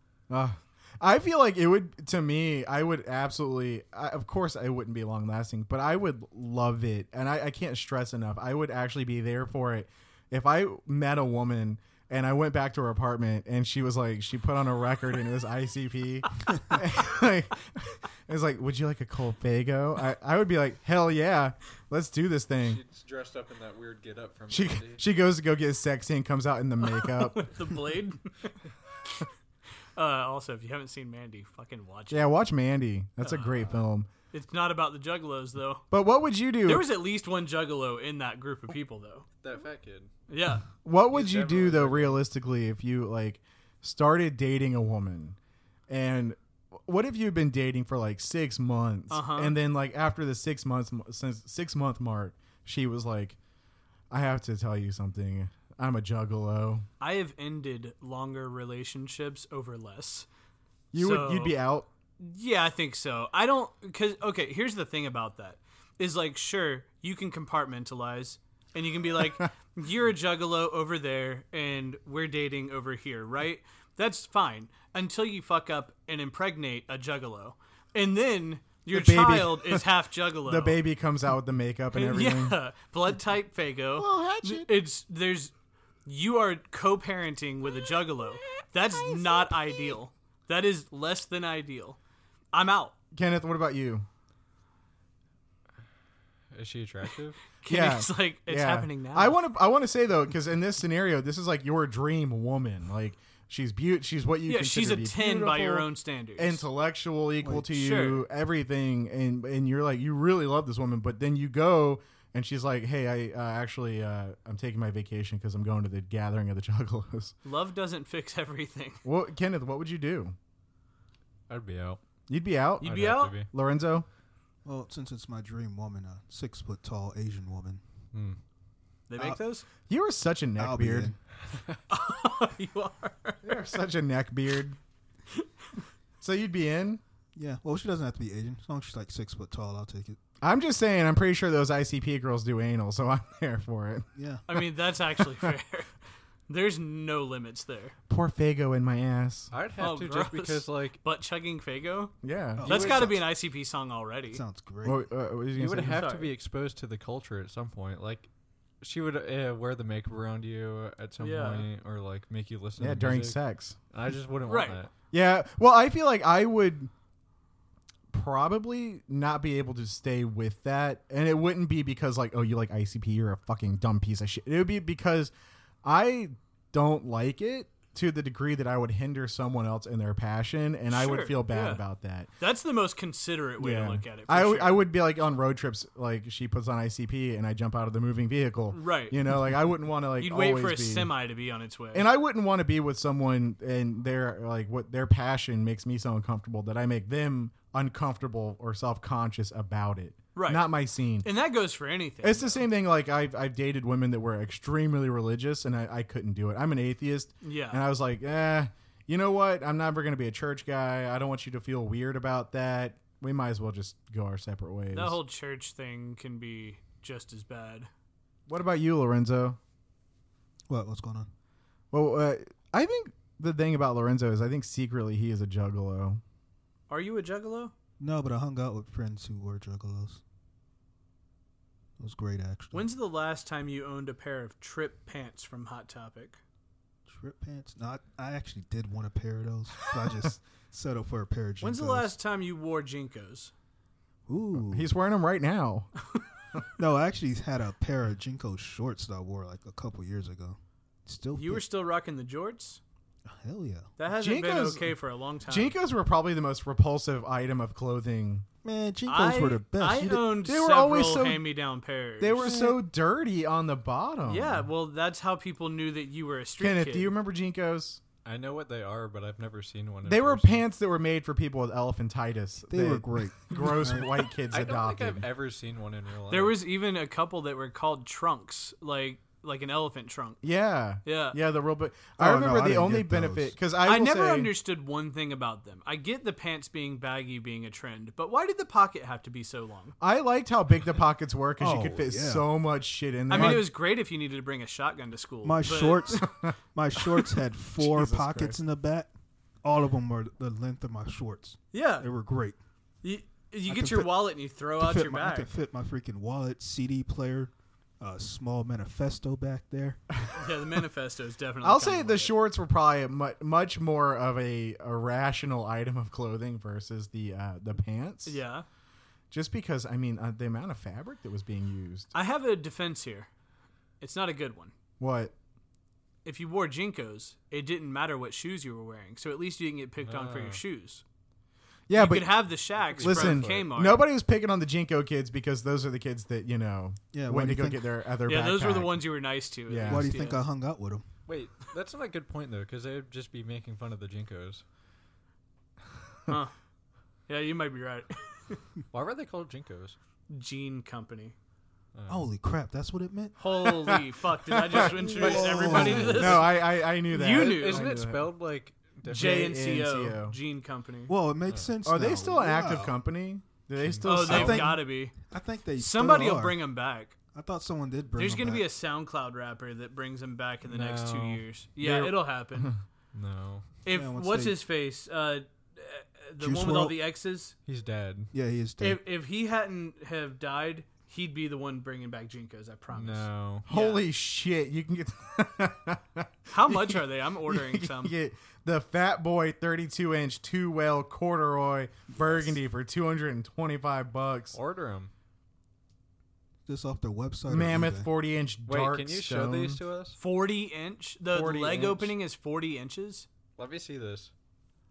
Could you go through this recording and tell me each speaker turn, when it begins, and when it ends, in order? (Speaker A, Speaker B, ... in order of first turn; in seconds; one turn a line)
Speaker A: 0.3-22.8
Speaker B: 22.6-25.0
Speaker A: 24.5-27.4
Speaker C: 26.8-28.6
Speaker C: 29.9-32.2
Speaker A: 32.1-34.1
Speaker C: 33.2-35.8
Speaker A: 35.9-36.8
Speaker C: 36.6-39.3
Speaker B: 39.4-40.1
Speaker C: 40.3-40.7
Speaker A: 40.8-45.4
Speaker B: 41.1-42.2
Speaker A: 45.9-53.4
Speaker C: 49.1-49.5
Speaker A: 54.1-56.9
Speaker C: 57.0-60.3
Speaker A: 60.9-61.9
Speaker C: 60.9-61.5
Speaker C: 62.2-80.8
Speaker A: 78.9-79.8
Speaker A: 80.4-82.6
Speaker C: 81.9-85.5
Speaker A: 84.0-84.7
Speaker C: 86.0-92.0
Speaker C: 92.5-92.9
Speaker A: 93.1-94.0
Speaker B: 96.5-97.4
Speaker C: 97.6-99.4
Speaker A: 97.7-117.3
Speaker C: 104.5-106.7
Speaker D: 107.4-107.7
Speaker C: 107.8-108.2
Speaker C: 117.4-119.0
Speaker A: 119.0-120.3
Speaker B: 121.5-122.0
Speaker A: 122.3-124.0
Speaker C: 122.8-123.4
Speaker B: 122.8-123.5
Speaker D: 124.6-127.8
Speaker B: 128.1-128.4
Speaker C: 129.1-129.6
Speaker A: 129.9-131.1
Speaker D: 130.6-131.2
Speaker B: 131.5-131.8
Speaker C: 131.9-133.6
Speaker A: 133.4-134.8
Speaker A: 136.2-137.0
Speaker D: 137.3-140.2
Speaker A: 140.4-144.1
Speaker D: 144.1-144.4
Speaker C: 144.5-145.9
Speaker A: 145.2-145.5
Speaker C: 146.5-147.9
Speaker A: 148.1-149.5
Speaker B: 149.5-151.0
Speaker C: 149.8-154.4
Speaker A: 152.2-153.1
Speaker D: 152.6-153.2
Speaker D: 154.3-155.0
Speaker A: 154.8-156.0
Speaker B: 155.6-158.3
Speaker C: 155.8-156.3
Speaker B: 158.8-163.4
Speaker C: 161.2-161.7
Speaker A: 162.8-163.8
Speaker B: 163.9-164.9
Speaker C: 164.4-164.8
Speaker A: 165.1-166.9
Speaker A: 168.1-175.3
Speaker A: 175.8-182.3
Speaker C: 180.9-181.8
Speaker C: 182.4-184.8
Speaker A: 183.6-191.1
Speaker C: 188.7-189.2
Speaker C: 190.2-192.1
Speaker A: 191.9-201.3
Speaker C: 200.3-200.7
Speaker C: 201.2-202.7
Speaker A: 202.2-215.2
Speaker C: 207.4-207.8
Speaker C: 214.9-217.9
Speaker A: 218.5-219.6
Speaker D: 220.7-221.3
Speaker A: 221.9-226.2
Speaker C: 226.9-227.7
Speaker D: 228.0-230.2
Speaker D: 232.0-232.9
Speaker C: 232.7-236.4
Speaker D: 237.1-242.1
Speaker C: 241.6-243.5
Speaker D: 244.3-244.9
Speaker A: 244.6-245.9
Speaker D: 246.8-251.6
Speaker C: 251.3-252.8
Speaker D: 253.2-253.9
Speaker C: 254.0-255.7
Speaker A: 254.2-254.9
Speaker A: 255.5-258.4
Speaker D: 258.6-260.3
Speaker C: 259.1-262.5
Speaker A: 260.4-261.4
Speaker A: 262.2-264.7
Speaker D: 262.4-262.8
Speaker C: 264.2-267.1
Speaker A: 266.6-268.0
Speaker B: 268.2-270.6
Speaker A: 270.1-275.2
Speaker D: 272.7-274.1
Speaker B: 274.5-276.6
Speaker C: 276.3-280.4
Speaker A: 280.4-284.5
Speaker C: 281.0-281.4
Speaker D: 282.2-283.5
Speaker C: 283.8-289.9
Speaker A: 290.0-293.7
Speaker D: 291.6-292.5
Speaker C: 293.3-296.3
Speaker D: 293.3-293.6
Speaker D: 295.4-299.1
Speaker A: 296.2-296.5
Speaker A: 297.8-298.6
Speaker D: 299.6-302.6
Speaker C: 301.7-302.0
Speaker C: 303.0-305.5
Speaker D: 303.7-304.1
Speaker D: 304.8-310.0
Speaker A: 310.1-310.4
Speaker C: 310.3-312.3
Speaker A: 311.6-318.4
Speaker C: 318.2-318.6
Speaker A: 319.3-322.1
Speaker C: 322.1-323.3
Speaker C: 324.0-324.7
Speaker A: 325.0-325.3
Speaker C: 326.2-331.0
Speaker B: 330.0-330.6
Speaker A: 331.9-332.4
Speaker C: 331.9-334.0
Speaker B: 332.8-333.7
Speaker A: 333.0-339.0
Speaker D: 337.1-337.9
Speaker C: 338.2-340.4
Speaker A: 339.7-340.1
Speaker D: 339.9-341.1
Speaker B: 341.3-344.6
Speaker C: 346.3-346.5
Speaker C: 347.3-348.6
Speaker B: 348.9-349.9
Speaker C: 350.3-351.3
Speaker B: 351.9-352.3
Speaker D: 352.1-353.4
Speaker C: 353.4-358.0
Speaker A: 354.5-358.3
Speaker D: 354.7-356.4
Speaker B: 355.2-356.4
Speaker B: 357.2-359.5
Speaker A: 359.1-360.4
Speaker C: 359.1-361.1
Speaker D: 361.1-362.9
Speaker A: 361.8-364.7
Speaker B: 363.8-364.5
Speaker C: 364.0-365.1
Speaker D: 364.2-366.6
Speaker C: 365.8-367.1
Speaker D: 367.3-368.6
Speaker C: 368.1-372.7
Speaker B: 370.7-371.4
Speaker A: 371.8-372.8
Speaker B: 373.1-373.7
Speaker C: 373.8-377.5
Speaker D: 373.9-374.6
Speaker D: 376.4-377.0
Speaker B: 377.6-378.3
Speaker D: 378.3-379.0
Speaker C: 378.8-384.0
Speaker B: 382.9-383.7
Speaker A: 383.7-394.6
Speaker C: 386.5-388.1
Speaker B: 394.5-395.1
Speaker D: 396.6-398.1
Speaker A: 397.5-399.8
Speaker B: 398.7-400.2
Speaker C: 400.2-403.2
Speaker A: 401.3-402.1
Speaker B: 403.6-404.3